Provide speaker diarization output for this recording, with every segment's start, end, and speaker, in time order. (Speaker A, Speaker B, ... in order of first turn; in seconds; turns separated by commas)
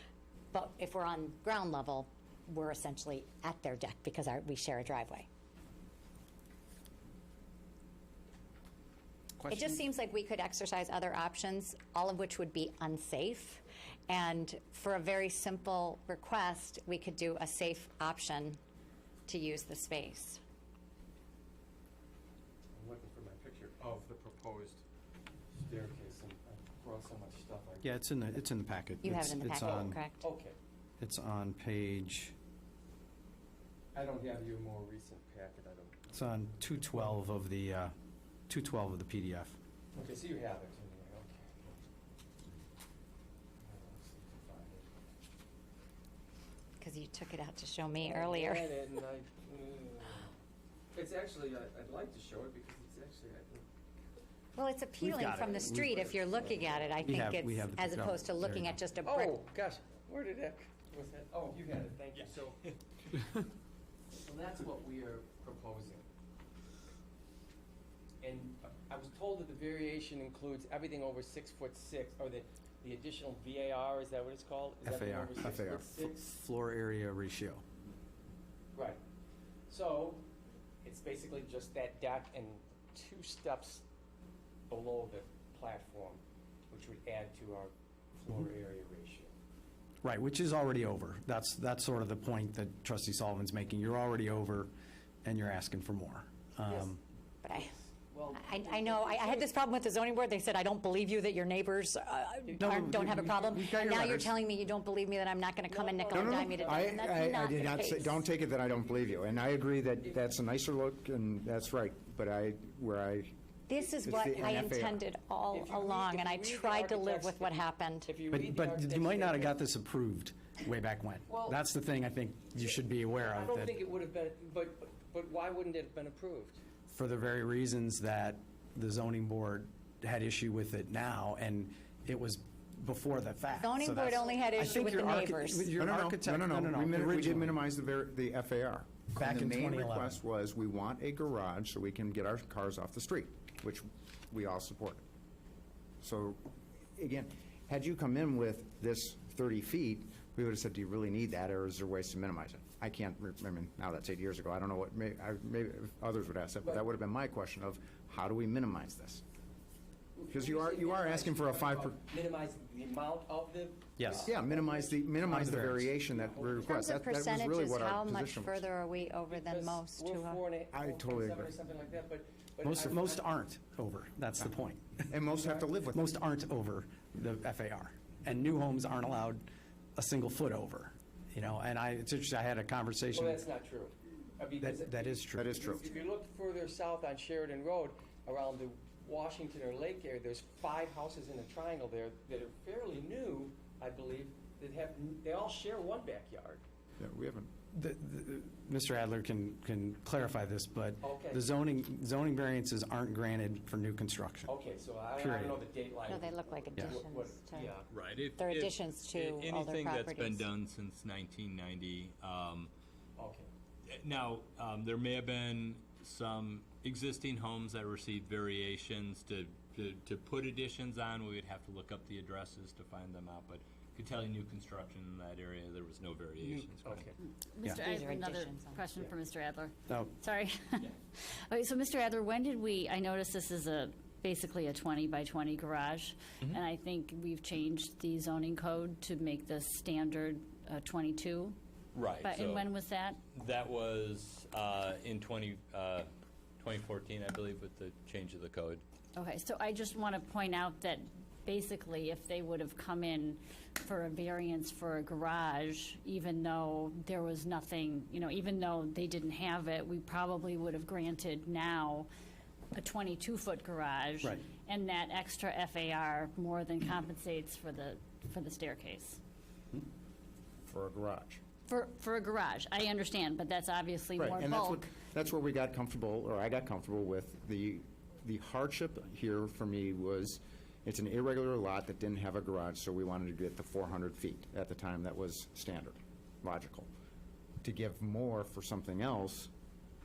Speaker A: 0.5-5.3, Speaker A: 9.5-18.6, Speaker A: 19.3-20.4, Speaker B: 22.7-24.8, Speaker B: 25.6-27.9, Speaker C: 27.8-30.0, Speaker A: 29.0-30.2, Speaker B: 29.5-30.6, Speaker C: 31.0-32.3, Speaker B: 33.9-36.0, Speaker C: 36.1-37.9, Speaker C: 38.5-39.6, Speaker B: 39.9-41.5, Speaker B: 43.6-44.9, Speaker A: 46.8-48.7, Speaker B: 48.0-50.3, Speaker B: 50.9-53.7, Speaker A: 54.6-59.4, Speaker C: 55.0-56.0, Speaker B: 55.4-57.0, Speaker C: 57.0-58.8, Speaker B: 59.0-62.6, Speaker B: 64.2-66.0, Speaker B: 68.2-76.4, Speaker C: 74.8-77.6, Speaker B: 78.7-79.0, Speaker B: 79.7-80.3, Speaker B: 80.8-83.8, Speaker B: 84.7-89.3, Speaker C: 90.0-94.7, Speaker C: 95.2-97.0, Speaker B: 96.7-96.9, Speaker A: 97.4-97.7, Speaker B: 97.5-99.5, Speaker A: 98.3-108.2, Speaker C: 102.6-104.3, Speaker B: 105.7-107.4, Speaker D: 106.1-113.3, Speaker B: 109.0-109.3, Speaker A: 113.7-118.1, Speaker D: 114.0-115.0, Speaker B: 115.5-117.5, Speaker B: 118.1-119.6, Speaker C: 118.3-123.7, Speaker B: 121.3-121.6, Speaker B: 123.2-126.6, Speaker C: 126.9-137.6, Speaker A: 133.6-135.7, Speaker D: 135.8-145.0, Speaker C: 139.2-140.2, Speaker D: 146.0-159.2, Speaker B: 160.2-165.2, Speaker D: 160.3-162.0, Speaker C: 164.0-164.3, Speaker D: 164.3-168.6, Speaker C: 165.2-165.9, Speaker B: 166.1-166.7, Speaker A: 166.6-170.4, Speaker B: 169.3-173.3, Speaker D: 170.7-171.5, Speaker C: 172.6-175.2, Speaker D: 175.1-176.0, Speaker C: 175.9-183.4, Speaker B: 183.1-196.6, Speaker C: 184.6-185.6, Speaker D: 185.4-185.9, Speaker D: 197.0-197.5, Speaker C: 197.7-204.5, Speaker B: 201.0-201.5, Speaker B: 204.5-207.9, Speaker C: 205.2-205.6, Speaker A: 206.1-207.7, Speaker E: 207.9-212.7, Speaker A: 208.4-210.5, Speaker B: 213.2-213.5, Speaker E: 213.9-227.1, Speaker B: 226.4-227.2, Speaker F: 227.5-241.6, Speaker A: 227.7-228.8, Speaker E: 241.9-242.7, Speaker F: 242.2-243.2, Speaker E: 243.3-248.8, Speaker F: 249.2-262.1, Speaker F: 262.8-269.2, Speaker D: 270.7-271.4, Speaker F: 271.7-274.9, Speaker D: 274.2-286.9, Speaker D: 287.6-289.5